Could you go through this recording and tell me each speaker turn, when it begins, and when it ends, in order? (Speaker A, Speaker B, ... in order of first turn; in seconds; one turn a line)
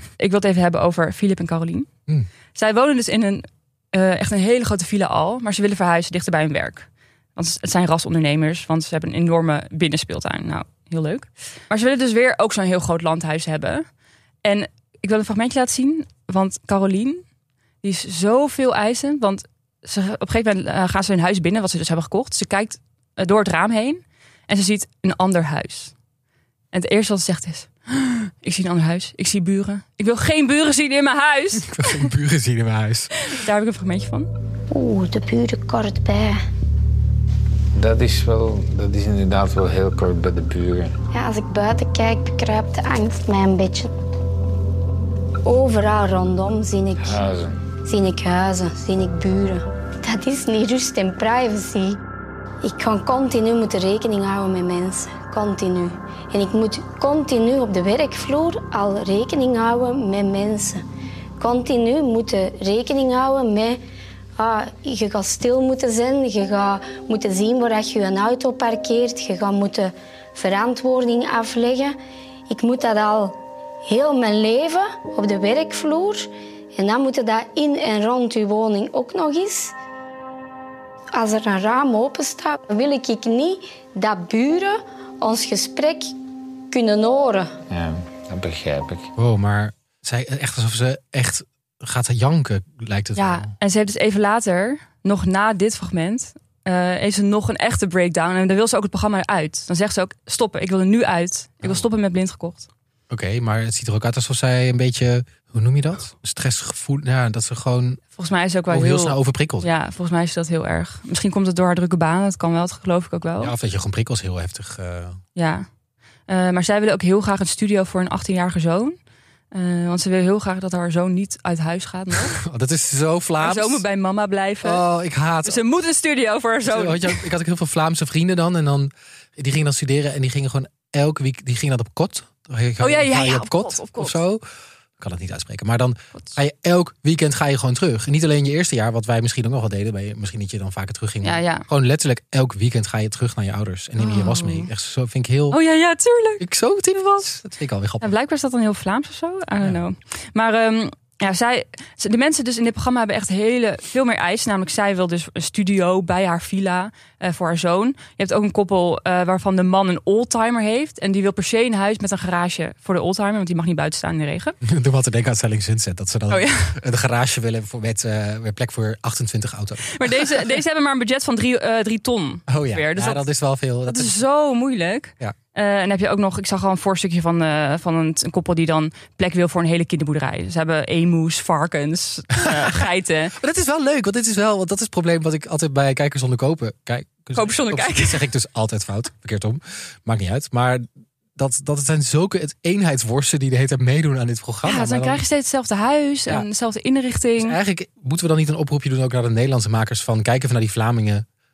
Speaker A: 0.2-1.9
Speaker A: 2.5-13.8
Speaker A: 14.4-17.2
Speaker A: 17.8-25.9
Speaker A: 26.7-32.0
Speaker B: 31.6-33.1
Speaker A: 33.2-34.3
Speaker C: 34.7-36.4
Speaker D: 37.7-40.9
Speaker C: 41.1-43.9
Speaker C: 45.4-47.3
Speaker D: 47.0-47.6
Speaker C: 47.8-52.0
Speaker C: 52.6-60.8
Speaker C: 61.4-63.8
Speaker C: 64.4-72.0
Speaker C: 72.5-79.7
Speaker C: 81.1-86.1
Speaker C: 86.7-87.5
Speaker D: 87.7-89.1
Speaker B: 89.2-93.5
Speaker A: 93.2-102.7
Speaker B: 103.1-108.0
Speaker A: 108.2-113.5
Speaker B: 108.7-109.7
Speaker B: 113.4-115.2
Speaker A: 115.3-115.7
Speaker A: 116.3-119.0
Speaker A: 119.5-122.4
Speaker B: 122.1-123.8
Speaker A: 123.4-124.8
Speaker B: 124.6-125.6
Speaker A: 125.4-127.3
Speaker B: 126.6-134.4
Speaker A: 132.8-134.2
Speaker B: 135.0-145.6
Speaker A: 141.2-141.7
Speaker A: 144.0-144.7
Speaker A: 145.5-146.4
Speaker B: 146.4-148.1
Speaker A: 148.0-164.6
Speaker B: 164.6-170.4
Speaker A: 166.3-166.7
Speaker A: 169.8-173.2
Speaker B: 172.5-174.2
Speaker A: 173.9-183.3
Speaker B: 182.4-182.8
Speaker B: 183.3-195.2
Speaker A: 187.3-188.3
Speaker A: 194.6-197.6
Speaker B: 197.4-201.2